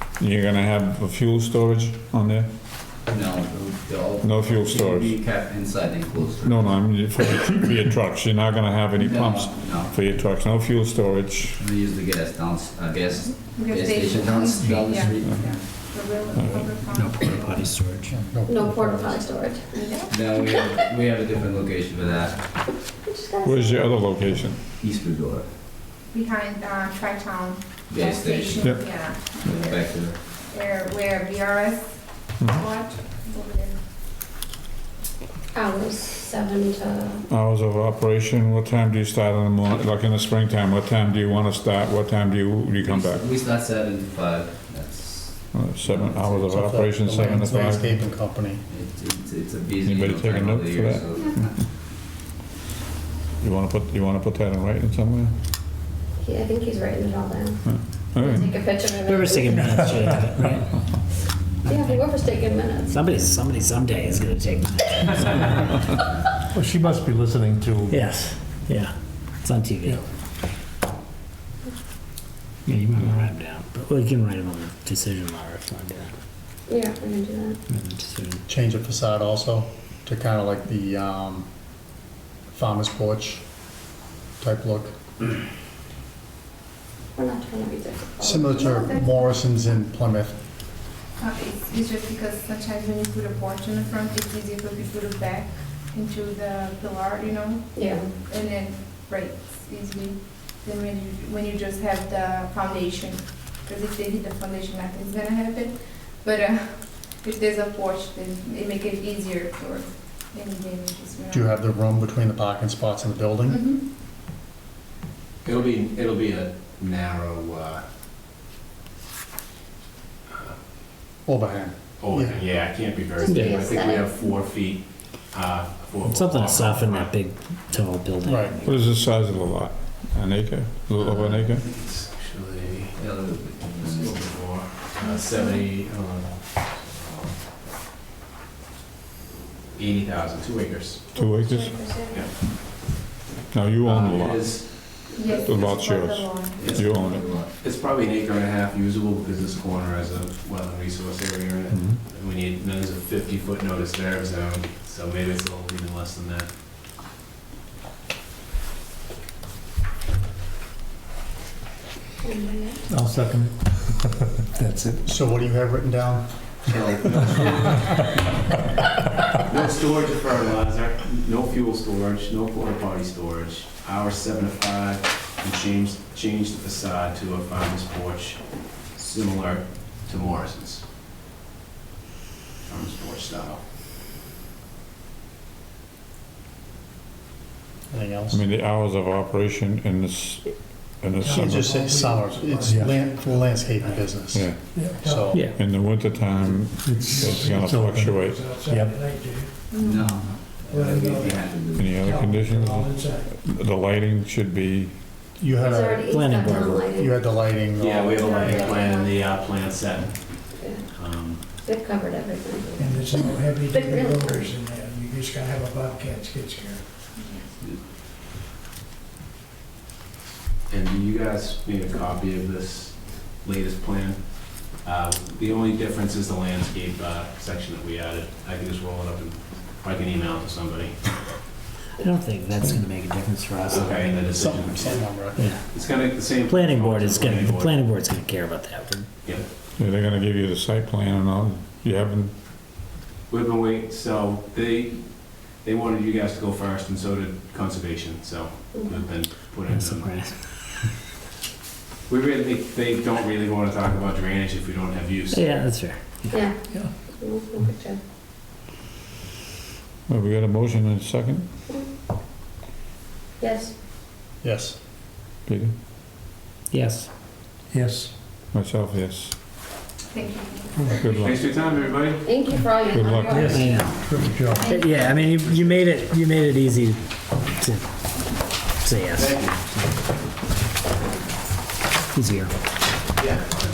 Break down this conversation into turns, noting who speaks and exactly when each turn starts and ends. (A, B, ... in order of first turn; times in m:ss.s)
0:00.2-0:02.5 A
0:03.1-0:06.6 B
0:04.2-0:05.2 A
0:06.4-0:11.6 A
0:09.0-0:09.9 B
0:11.5-0:15.4 B
0:13.2-0:17.6 C
0:15.2-0:15.7 A
0:16.3-0:16.7 A
0:16.9-0:18.3 D
0:18.1-0:19.2 E
0:18.4-0:20.0 F
0:19.8-0:20.5 C
0:20.1-0:22.4 B
0:23.0-0:24.0 F
0:23.4-0:24.6 A
0:24.8-0:25.5 B
0:26.1-0:33.8 C
0:27.9-0:30.2 B
0:28.6-0:29.1 A
0:35.5-0:37.2 F
0:37.3-0:43.3 A
0:42.8-0:46.5 B
0:45.5-0:47.9 A
0:46.5-0:48.6 E
0:48.7-0:51.6 B
0:49.8-0:51.5 A
0:53.4-0:55.3 A
0:56.2-0:57.6 F
0:57.6-0:58.5 A
0:58.2-0:59.8 F
0:59.0-1:00.8 D
0:59.6-1:00.6 G
1:01.6-1:03.0 F
1:01.7-1:02.2 D
1:02.9-1:06.0 D
1:06.5-1:08.2 G
1:07.9-1:10.0 D
1:12.6-1:16.1 D
1:16.7-1:17.6 F
1:17.7-1:18.4 D
1:18.5-1:21.5 E
1:22.5-1:23.4 E
1:24.4-1:25.0 E
1:27.1-1:28.5 F
1:28.2-1:30.4 E
1:28.5-1:29.4 C
1:31.2-1:51.6 C
1:37.7-1:38.1 F
1:51.3-1:53.6 E
1:53.5-1:53.8 C
1:55.4-1:57.8 H
2:00.3-2:00.6 H
2:01.2-2:02.4 E
2:02.0-2:07.1 H
2:03.2-2:04.3 F
2:03.2-2:03.7 D
2:06.0-2:08.9 D
2:08.2-2:08.6 E
2:08.6-2:11.6 A
2:11.0-2:13.0 H
2:13.0-2:14.2 B
2:13.8-2:17.3 H
2:15.0-2:15.6 C
2:19.8-2:21.0 H
2:21.1-2:22.3 F
2:21.1-2:21.8 A
2:23.5-2:24.6 A
2:23.8-2:25.8 H
2:25.1-2:26.8 C
2:25.4-2:27.2 A
2:26.6-2:27.1 H
2:26.7-2:27.5 B
2:27.6-2:36.5 H
2:31.7-2:32.0 A
2:42.2-2:42.8 F
2:42.9-2:45.0 G
2:45.0-2:46.9 E
2:46.6-2:48.0 H
2:49.4-3:00.8 H
3:02.6-3:03.6 H
3:07.9-3:08.4 E
3:08.3-3:11.7 A
3:11.2-3:19.6 I
3:11.3-3:15.5 E
3:12.6-3:13.0 G
3:14.3-3:18.4 A
3:15.3-3:15.7 D
3:16.8-3:18.1 G
3:18.7-3:19.0 G
3:19.7-3:20.1 C
3:19.8-3:21.9 B
3:20.6-3:23.3 I
3:21.7-3:24.9 A
3:25.4-3:26.1 E
3:25.6-3:27.2 F
3:26.1-3:26.8 D
3:26.8-3:28.8 E
3:27.8-3:31.4 H
3:28.2-3:29.2 F
3:28.3-3:28.7 C
3:30.6-3:30.8 F
3:31.6-3:34.5 F
3:32.8-3:36.9 I
3:37.1-3:37.5 C
3:40.7-3:51.1 H
3:52.0-3:54.1 D
3:53.6-3:55.1 H
3:54.1-3:55.5 E
3:55.4-3:59.1 D
3:55.7-3:57.9 H
3:59.8-4:02.3 A
4:03.3-4:10.3 H
4:08.7-4:09.0 F
4:09.7-4:10.7 D
4:12.1-4:15.6 H
4:15.3-4:16.5 D
4:16.3-4:18.0 F
4:20.1-4:21.5 A
4:23.4-4:23.7 F
4:24.4-4:24.8 E
4:25.5-4:25.7 A
4:26.7-4:27.1 D
4:27.7-4:28.1 G
4:28.5-4:29.3 A
4:30.1-4:32.0 C
4:30.9-4:31.4 A
4:31.2-4:32.3 H
4:32.2-4:33.6 F
4:32.8-4:33.8 A
4:33.2-4:34.6 G
4:33.5-4:34.0 D
4:34.0-4:35.3 C
4:34.6-4:37.8 D
4:35.3-4:35.8 H
4:38.8-4:40.0 D
4:39.1-4:39.6 H
4:42.1-4:42.5 D
4:43.2-4:43.5 H